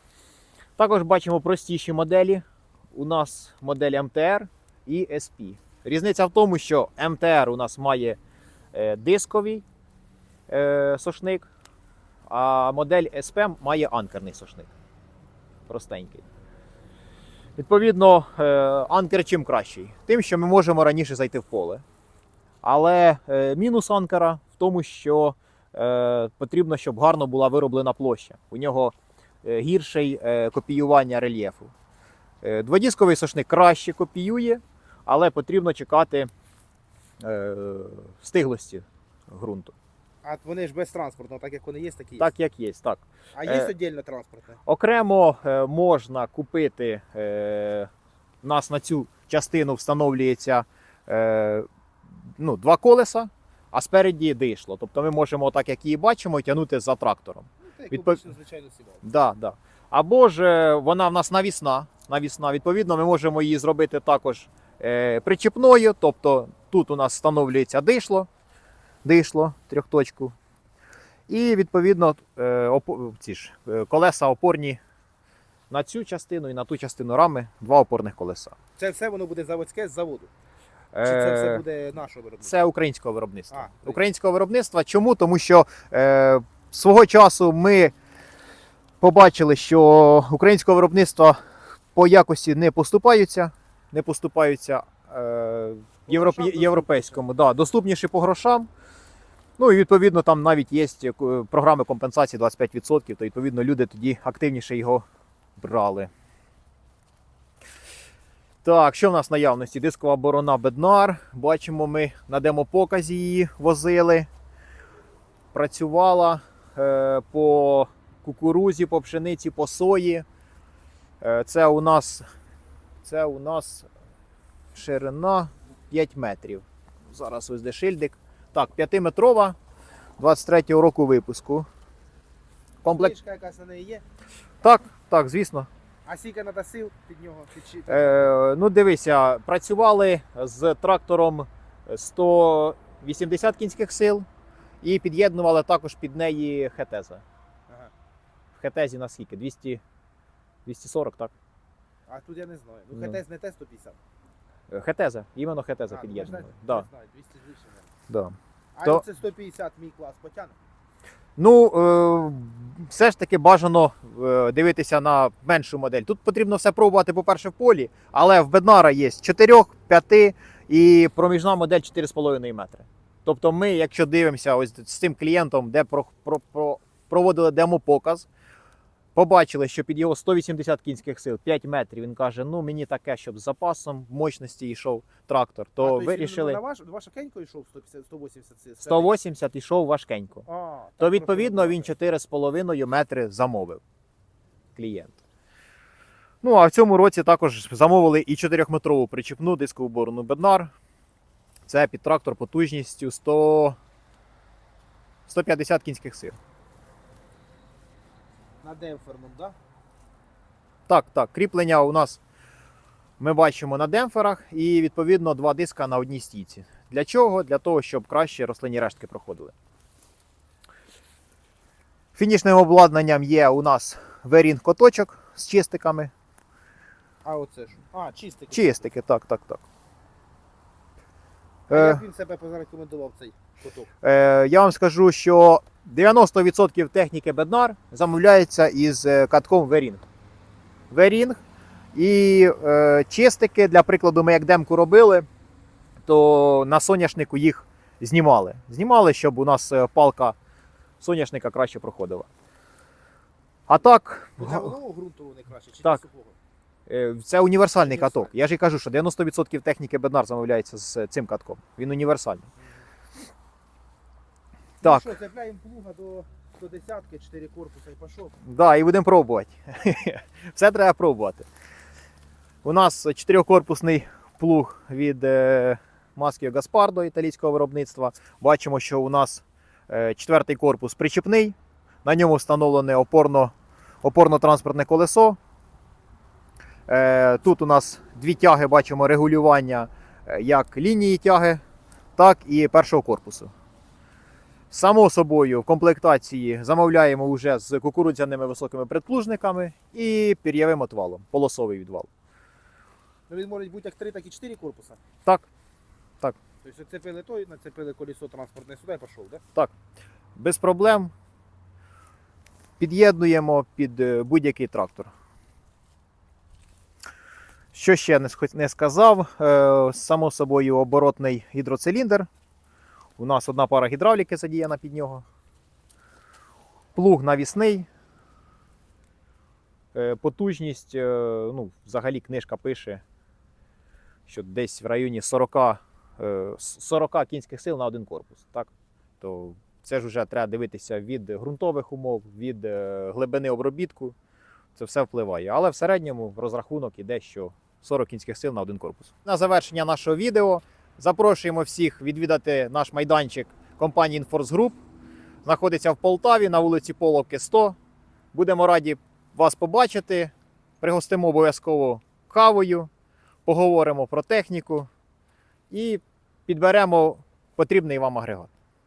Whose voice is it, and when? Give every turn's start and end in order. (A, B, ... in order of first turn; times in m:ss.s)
0:00.8-0:08.2 A
0:08.7-0:09.6 A
0:10.5-0:11.5 A
0:12.3-0:14.7 A
0:15.7-0:16.3 A
0:17.6-0:21.8 A
0:22.6-0:31.7 A
0:32.4-0:36.3 A
0:37.2-0:39.7 A
0:40.2-0:42.3 B
0:42.2-0:43.7 A
0:43.3-0:44.6 B
0:44.6-0:47.9 A
0:48.4-0:51.6 A
0:52.4-0:58.2 A
0:57.6-0:59.0 B
0:59.0-1:08.3 A
1:09.0-1:10.4 A
1:11.3-1:14.8 A
1:15.7-1:18.6 A
1:18.8-1:20.3 B
1:20.9-1:21.6 A
1:21.0-1:22.5 B
1:22.4-1:27.9 A
1:23.5-1:24.0 B
1:29.0-1:31.4 A
1:31.9-1:38.7 A
1:36.1-1:37.2 B
1:39.6-1:45.0 A
1:45.6-1:46.1 A
1:48.6-1:54.3 A
1:55.5-2:00.2 A
2:01.2-2:02.2 A
2:03.0-2:03.9 A
2:04.7-2:09.6 A
2:10.2-2:11.7 A
2:12.8-2:13.2 A
2:12.8-2:14.0 B
2:14.6-2:15.7 A
2:16.0-2:18.3 B
2:17.9-2:24.2 A
2:24.8-2:27.2 A
2:28.5-2:29.8 A
2:30.6-2:31.3 A
2:32.1-2:34.0 B
2:34.7-2:36.8 A
2:35.9-2:37.9 B
2:38.1-2:39.0 A
2:38.8-2:40.6 B
2:41.4-2:58.3 A
2:59.1-3:06.6 A
3:05.8-3:09.1 B
3:08.8-3:10.5 A
3:10.5-3:11.9 B
3:11.0-3:13.8 A
3:14.8-3:15.2 A
3:16.4-3:20.7 A
3:21.7-3:23.8 A
3:25.3-3:26.4 A
3:28.6-3:29.6 B
3:30.9-3:32.2 A
3:33.2-3:39.5 A
3:42.1-3:46.1 A
3:47.2-3:48.8 B
3:48.5-3:49.6 A
3:51.7-3:52.0 A
3:51.7-3:53.9 B
3:54.0-4:00.0 A
4:00.9-4:01.4 A
4:01.9-4:05.3 A
4:06.1-4:10.4 A
4:11.0-4:12.3 A
4:13.7-4:14.7 A
4:14.4-4:16.4 B
4:16.9-4:22.5 A
4:17.8-4:18.3 B
4:22.6-4:22.8 B
4:24.8-4:25.1 A
4:24.8-4:28.4 B
4:28.4-4:31.5 A
4:32.6-4:45.4 A
4:46.9-4:51.6 A
4:52.2-4:53.5 A
4:54.7-5:02.1 A
5:03.3-5:05.0 B
5:06.6-5:09.4 B
5:10.4-5:11.1 A
5:12.8-5:15.1 A
5:17.7-5:22.3 A
5:23.2-5:25.2 A
5:26.9-5:27.9 A
5:29.9-5:33.0 A
5:34.3-5:44.1 A
5:44.7-5:54.8 A
5:55.4-5:57.8 A
5:58.3-6:02.9 A
6:03.4-6:04.9 A
6:05.7-6:08.5 A